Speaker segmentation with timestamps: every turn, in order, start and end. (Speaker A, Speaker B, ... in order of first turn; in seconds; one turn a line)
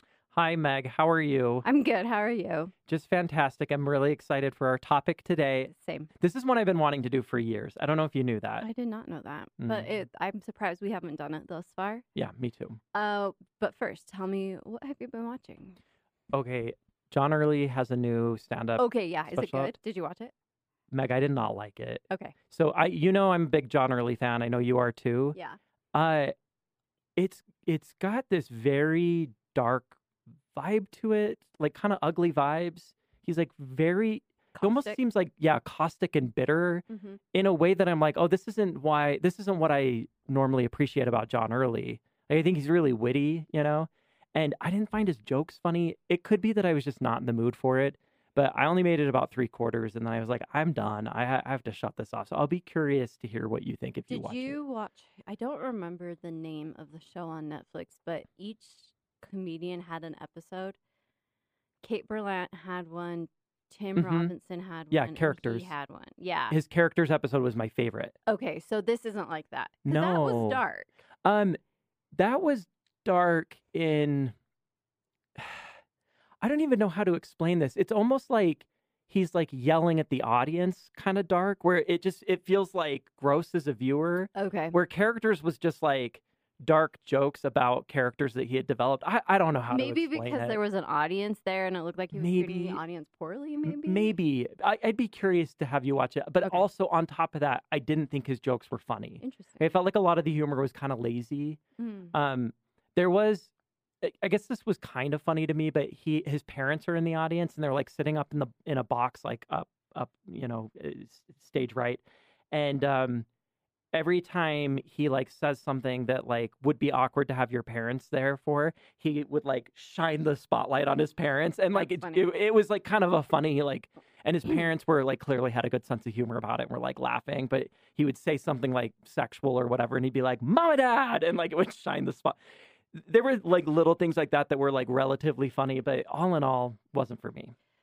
Speaker A: 0.3-1.6
Speaker B: 1.6-2.7
Speaker A: 2.9-8.7
Speaker B: 5.7-6.1
Speaker B: 8.6-12.0
Speaker A: 9.6-9.9
Speaker A: 12.1-12.8
Speaker B: 12.9-15.8
Speaker A: 16.3-19.7
Speaker B: 18.8-20.3
Speaker A: 20.9-25.4
Speaker B: 22.1-22.3
Speaker A: 25.9-26.3
Speaker A: 27.1-30.0
Speaker A: 30.5-54.6
Speaker B: 34.5-35.0
Speaker B: 36.9-37.2
Speaker B: 54.1-60.8
Speaker B: 61.8-66.6
Speaker A: 64.0-64.3
Speaker A: 64.9-65.7
Speaker A: 66.5-68.2
Speaker B: 68.3-70.9
Speaker A: 69.8-70.6
Speaker A: 71.2-71.6
Speaker A: 72.1-74.3
Speaker A: 75.3-75.7
Speaker A: 76.4-90.6
Speaker B: 84.3-84.8
Speaker B: 89.7-94.2
Speaker A: 92.1-92.8
Speaker A: 93.6-101.6
Speaker B: 99.2-99.8
Speaker B: 101.8-102.1
Speaker A: 102.1-113.3
Speaker A: 113.9-132.4
Speaker B: 121.7-122.2
Speaker A: 132.9-137.5